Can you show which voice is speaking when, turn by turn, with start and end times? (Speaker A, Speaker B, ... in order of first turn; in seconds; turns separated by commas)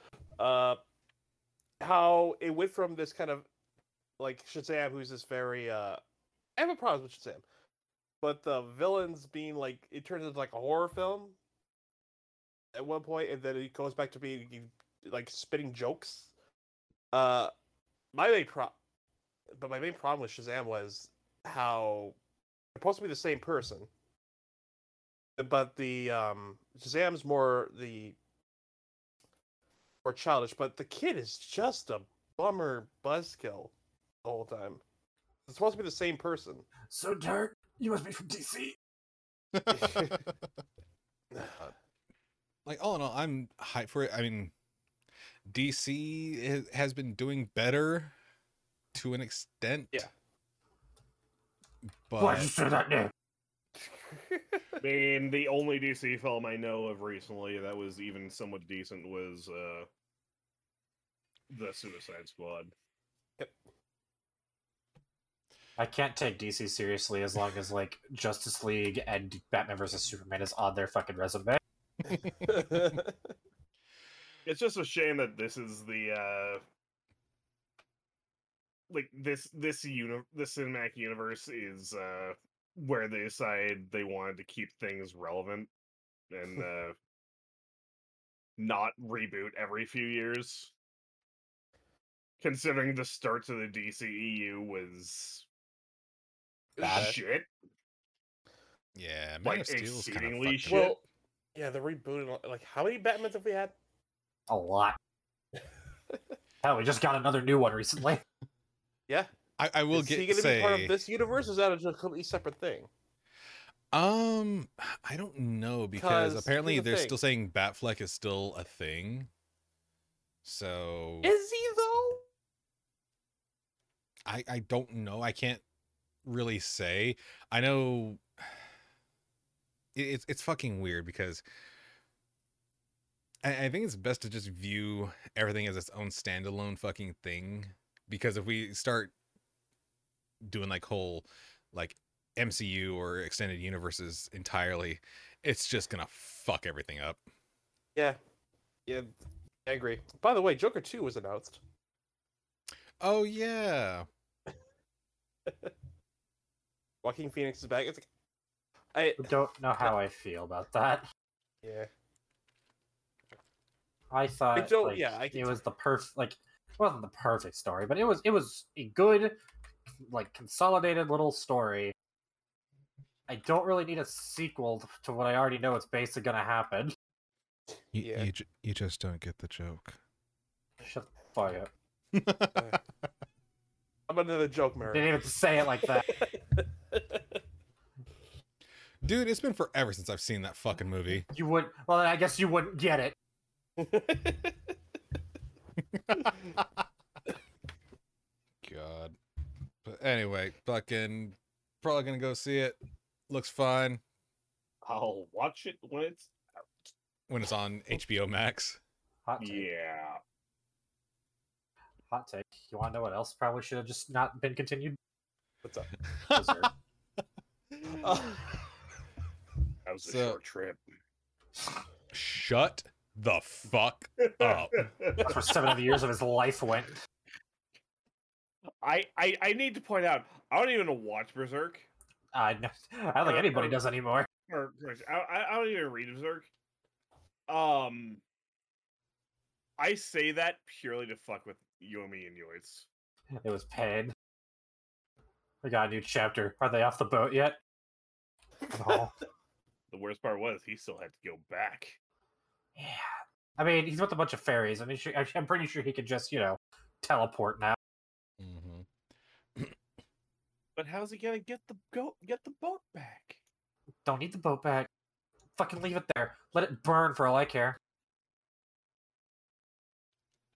Speaker A: 0.4-0.8, Speaker A: 1.8-3.5, Speaker A: 4.2-6.0, Speaker A: 6.6-7.4, Speaker A: 8.2-11.3, Speaker A: 12.7-16.3, Speaker A: 17.1-17.5, Speaker A: 18.1-18.8, Speaker A: 19.5-22.1, Speaker A: 22.7-23.9, Speaker A: 25.4-28.1, Speaker A: 30.0-33.7, Speaker A: 34.2-34.8, Speaker A: 35.5-36.6, Speaker B: 36.9-38.8, Speaker C: 39.5-40.2, Speaker A: 39.7-40.2, Speaker C: 42.6-44.5, Speaker C: 45.5-48.1, Speaker C: 48.9-50.1, Speaker C: 52.1-52.5, Speaker B: 52.2-53.1, Speaker A: 54.1-54.4, Speaker D: 54.8-59.9, Speaker D: 61.5-62.7, Speaker B: 65.8-71.6, Speaker A: 72.4-73.3, Speaker D: 74.5-76.6, Speaker D: 78.9-85.7, Speaker D: 86.3-87.0, Speaker D: 88.6-90.7, Speaker D: 92.4-95.4, Speaker A: 96.8-97.2, Speaker D: 96.8-97.5, Speaker C: 96.8-97.1, Speaker C: 98.9-100.9, Speaker D: 99.4-101.0, Speaker A: 100.7-101.0, Speaker A: 101.5-103.7, Speaker B: 104.5-105.0, Speaker B: 106.6-108.2, Speaker C: 109.6-111.0, Speaker A: 109.9-112.9, Speaker C: 113.9-119.3, Speaker A: 116.0-117.2, Speaker C: 120.4-121.3, Speaker A: 121.2-122.3, Speaker C: 124.2-125.6, Speaker C: 126.2-128.2, Speaker C: 129.9-131.4, Speaker C: 133.4-139.1, Speaker C: 140.4-147.2, Speaker A: 148.8-149.1, Speaker A: 149.7-151.6, Speaker C: 153.0-154.1, Speaker A: 157.0-158.1, Speaker A: 158.9-159.9, Speaker B: 159.2-161.1, Speaker A: 161.6-161.9, Speaker B: 164.1-169.4, Speaker A: 164.5-165.6, Speaker B: 170.1-171.9, Speaker B: 173.3-176.9, Speaker C: 177.9-180.0, Speaker A: 177.9-178.3, Speaker B: 180.8-181.7, Speaker C: 182.1-182.7, Speaker A: 184.1-185.2, Speaker B: 184.9-186.1, Speaker A: 185.9-187.2, Speaker C: 189.0-191.3, Speaker B: 191.3-193.1, Speaker A: 193.8-194.7, Speaker C: 195.9-196.7, Speaker C: 198.6-199.2, Speaker C: 199.8-202.8, Speaker C: 203.3-204.0, Speaker D: 204.8-206.3, Speaker C: 207.3-208.8, Speaker B: 209.2-209.7, Speaker D: 209.4-210.2, Speaker B: 212.1-215.0, Speaker A: 215.6-215.9, Speaker C: 216.2-216.7, Speaker B: 216.3-216.7, Speaker C: 217.8-218.2, Speaker A: 218.0-218.4, Speaker D: 219.8-220.8, Speaker C: 220.0-220.4, Speaker C: 222.1-224.9, Speaker D: 224.2-225.3, Speaker B: 225.2-227.0, Speaker D: 228.8-231.9, Speaker B: 232.3-234.3, Speaker D: 233.2-233.8, Speaker D: 234.5-236.5, Speaker D: 237.5-238.2, Speaker D: 239.8-242.9, Speaker B: 243.4-244.1, Speaker B: 245.6-247.6, Speaker B: 248.7-249.1, Speaker D: 249.9-252.0, Speaker B: 252.8-253.0, Speaker B: 253.6-257.8, Speaker C: 258.4-258.9, Speaker D: 260.8-263.4, Speaker B: 264.0-264.9, Speaker B: 265.6-267.8